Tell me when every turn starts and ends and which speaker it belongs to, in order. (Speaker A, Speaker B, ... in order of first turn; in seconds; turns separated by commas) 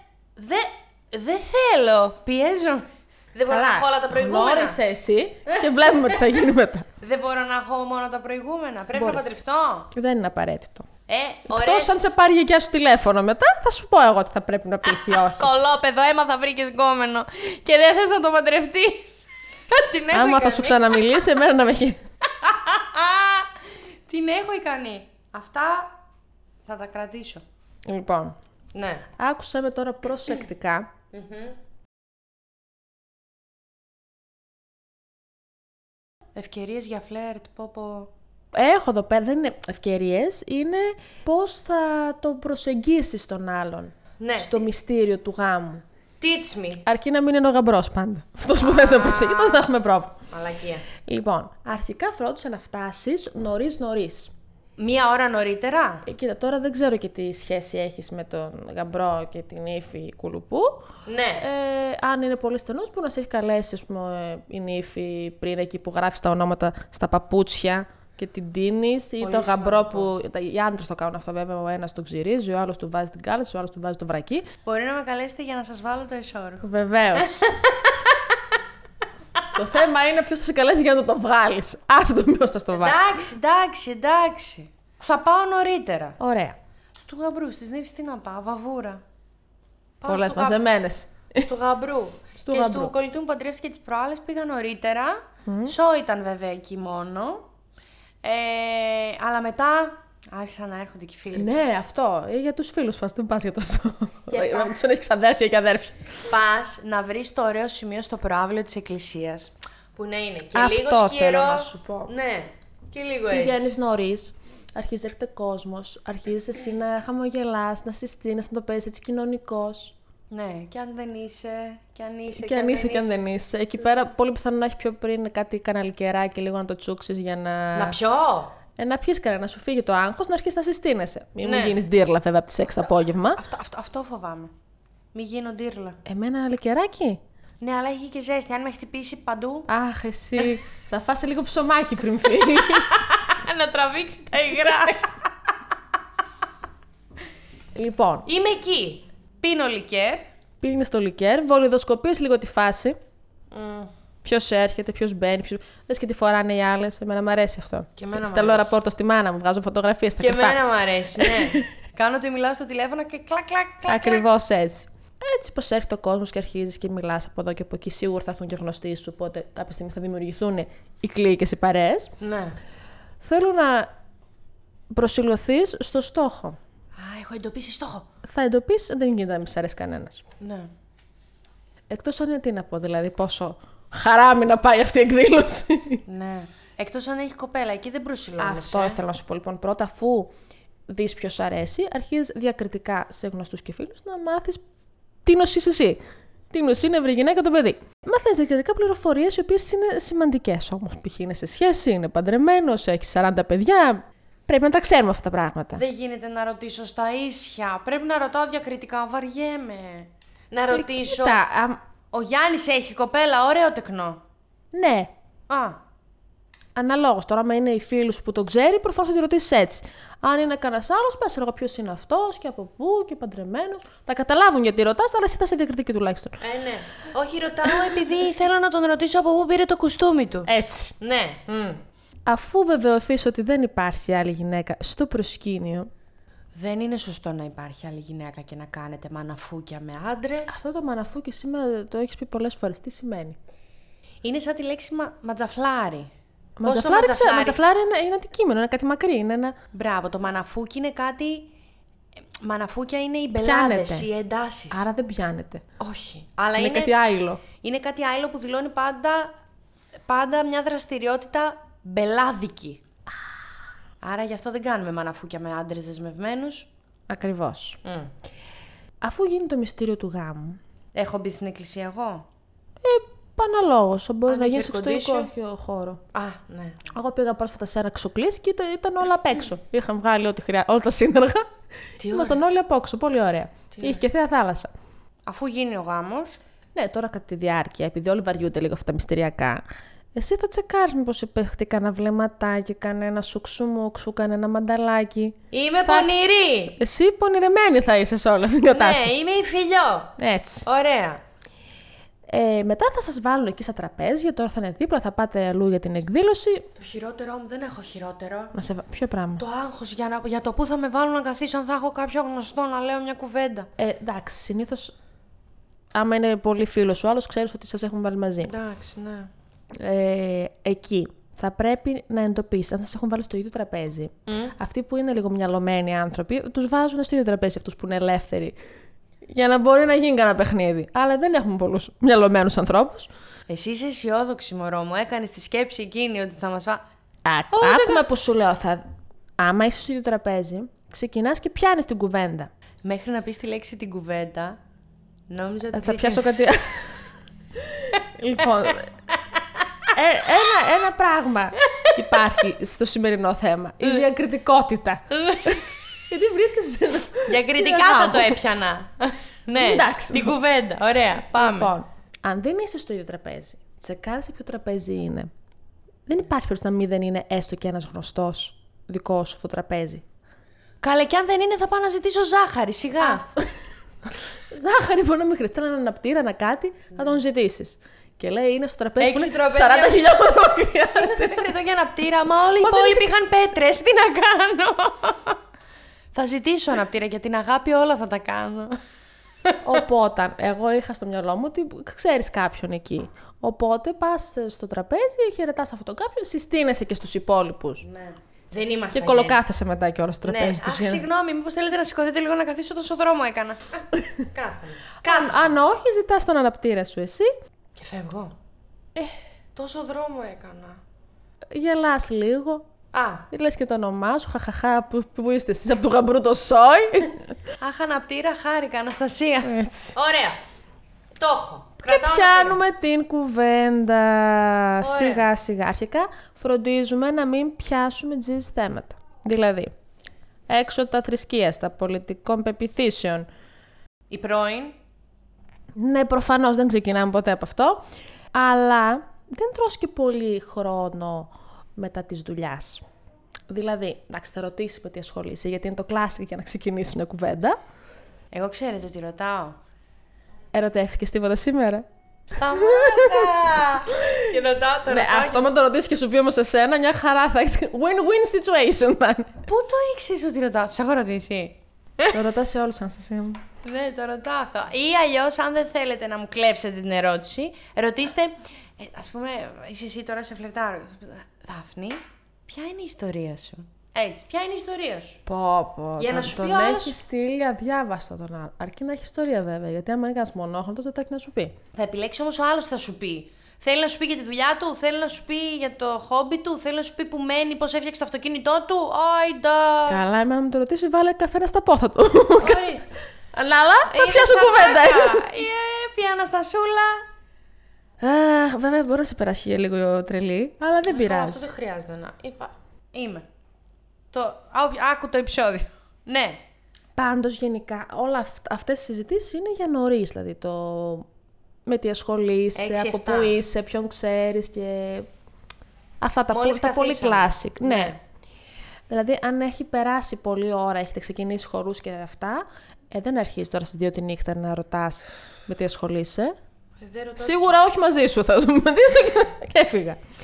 Speaker A: 0.3-4.8, Speaker B: 3.5-6.9, Speaker A: 7.0-9.9, Speaker B: 8.9-9.3, Speaker B: 9.9-10.9, Speaker A: 11.1-12.0, Speaker B: 11.5-15.5, Speaker A: 14.8-21.2, Speaker B: 20.1-22.1, Speaker A: 22.4-26.0, Speaker A: 26.6-27.4, Speaker B: 27.9-28.4, Speaker A: 28.7-29.0, Speaker B: 29.2-30.9, Speaker A: 31.1-31.6, Speaker A: 36.3-38.1, Speaker B: 38.5-45.8, Speaker A: 44.2-44.6, Speaker A: 46.2-46.8, Speaker B: 46.8-50.2, Speaker A: 48.6-49.7, Speaker A: 50.3-50.9, Speaker B: 51.0-54.3, Speaker A: 54.8-56.0, Speaker B: 56.0-60.9, Speaker A: 61.0-61.4, Speaker B: 61.4-74.5, Speaker A: 69.2-70.1, Speaker A: 74.6-78.6, Speaker B: 76.6-77.5, Speaker B: 79.5-83.0, Speaker A: 82.7-86.2, Speaker B: 86.2-86.6, Speaker A: 87.0-89.0, Speaker A: 90.0-90.6, Speaker B: 90.1-91.5, Speaker A: 91.5-97.5, Speaker B: 92.4-92.9, Speaker B: 95.5-95.7, Speaker A: 98.2-101.6, Speaker B: 101.3-106.1, Speaker A: 104.3-104.7, Speaker A: 106.3-113.7, Speaker B: 110.5-112.1, Speaker B: 113.3-119.9, Speaker A: 120.3-123.2, Speaker B: 122.3-128.0, Speaker A: 127.7-128.5, Speaker B: 128.8-133.4, Speaker A: 131.4-131.8, Speaker A: 133.4-134.5, Speaker A: 135.1-136.0, Speaker B: 136.1-137.2, Speaker A: 137.6-139.7, Speaker B: 139.7-142.9, Speaker A: 142.7-145.3, Speaker B: 147.8-148.3, Speaker A: 148.2-150.2, Speaker B: 150.6-152.9, Speaker A: 153.5-153.9, Speaker B: 154.2-161.6, Speaker A: 158.0-158.8, Speaker A: 160.2-164.2, Speaker B: 163.9-172.1, Speaker A: 172.2-172.6, Speaker B: 173.2-173.9, Speaker B: 174.9-176.6, Speaker A: 176.9-178.1, Speaker B: 178.2-180.2, Speaker A: 180.4-180.7, Speaker B: 181.9-186.0, Speaker A: 186.1-189.0, Speaker B: 188.4-190.3, Speaker B: 190.9-194.6, Speaker B: 195.2-205.8, Speaker A: 205.8-211.4, Speaker B: 210.7-211.8, Speaker A: 212.1-214.2, Speaker B: 214.7-215.1, Speaker A: 215.5-215.8, Speaker B: 216.8-226.4, Speaker A: 226.4-230.5, Speaker B: 230.5-230.9, Speaker A: 231.0-231.8, Speaker B: 232.3-235.9, Speaker A: 236.5-240.6, Speaker B: 240.5-243.4, Speaker A: 244.2-246.1, Speaker B: 246.6-249.6, Speaker A: 246.6-247.6, Speaker A: 249.7-251.5, Speaker A: 252.4-254.8, Speaker B: 253.4-254.1, Speaker B: 254.7-255.6, Speaker A: 255.8-257.0, Speaker B: 256.6-257.4, Speaker A: 257.5-259.3, Speaker A: 260.1-262.8, Speaker A: 264.0-266.7, Speaker B: 267.1-267.8, Speaker A: 267.8-268.1, Speaker B: 269.0-270.6, Speaker A: 270.9-272.3, Speaker B: 272.8-276.0, Speaker A: 274.3-275.3, Speaker A: 276.1-276.9, Speaker B: 276.9-281.5, Speaker A: 282.0-282.4, Speaker B: 282.1-284.7, Speaker A: 283.7-284.0, Speaker A: 285.2-286.4, Speaker B: 286.7-289.6, Speaker B: 290.1-296.2, Speaker A: 295.5-296.8, Speaker B: 296.7-299.3, Speaker A: 298.7-301.2, Speaker B: 300.2-300.6, Speaker B: 302.3-306.7, Speaker A: 306.8-308.5, Speaker B: 308.5-309.4, Speaker A: 309.4-313.7, Speaker B: 313.8-314.9, Speaker B: 315.9-318.5, Speaker A: 318.4-319.3, Speaker B: 319.7-328.6, Speaker A: 324.3-324.5, Speaker B: 329.3-333.1, Speaker A: 333.5-336.8, Speaker B: 337.2-338.9, Speaker A: 337.5-338.0, Speaker B: 339.4-342.5, Speaker A: 342.8-344.6, Speaker A: 345.3-346.3, Speaker B: 345.7-347.0, Speaker B: 347.7-348.9, Speaker B: 349.9-358.4, Speaker A: 351.7-352.2, Speaker A: 355.1-355.7, Speaker A: 357.3-361.7, Speaker B: 359.6-360.4, Speaker B: 361.3-365.3, Speaker B: 366.1-370.0, Speaker A: 370.8-373.2, Speaker B: 373.0-373.7, Speaker B: 374.3-381.5, Speaker A: 379.0-385.4, Speaker B: 382.6-383.1, Speaker A: 386.1-388.8, Speaker B: 389.6-397.9, Speaker A: 397.8-399.4, Speaker B: 398.9-401.0, Speaker A: 400.2-405.5, Speaker B: 405.0-407.3, Speaker A: 407.8-408.3, Speaker A: 409.5-410.8, Speaker B: 411.5-412.6, Speaker A: 412.9-413.2, Speaker B: 413.3-417.3, Speaker A: 417.6-420.4, Speaker B: 419.4-419.9, Speaker A: 421.2-422.6, Speaker B: 421.9-429.7, Speaker A: 424.8-425.2, Speaker B: 430.5-433.3, Speaker A: 434.1-434.8, Speaker B: 435.8-442.8, Speaker B: 443.5-447.6, Speaker A: 448.3-449.6, Speaker B: 450.5-451.8, Speaker A: 452.3-455.5, Speaker B: 452.5-453.3, Speaker B: 453.9-454.3, Speaker B: 454.9-459.4, Speaker A: 459.5-462.2, Speaker B: 462.1-463.4, Speaker A: 463.6-475.2, Speaker B: 475.2-481.5, Speaker A: 476.0-477.0, Speaker A: 481.7-490.0, Speaker B: 489.9-492.6, Speaker A: 492.4-492.9, Speaker B: 493.3-495.3, Speaker A: 493.9-497.0, Speaker B: 498.0-501.4, Speaker A: 500.9-503.2, Speaker A: 504.1-506.4, Speaker B: 506.9-511.1, Speaker B: 511.6-515.1, Speaker A: 512.5-513.4, Speaker B: 516.0-518.0, Speaker A: 516.3-518.0, Speaker B: 518.9-526.3, Speaker A: 526.8-527.5, Speaker B: 527.2-530.0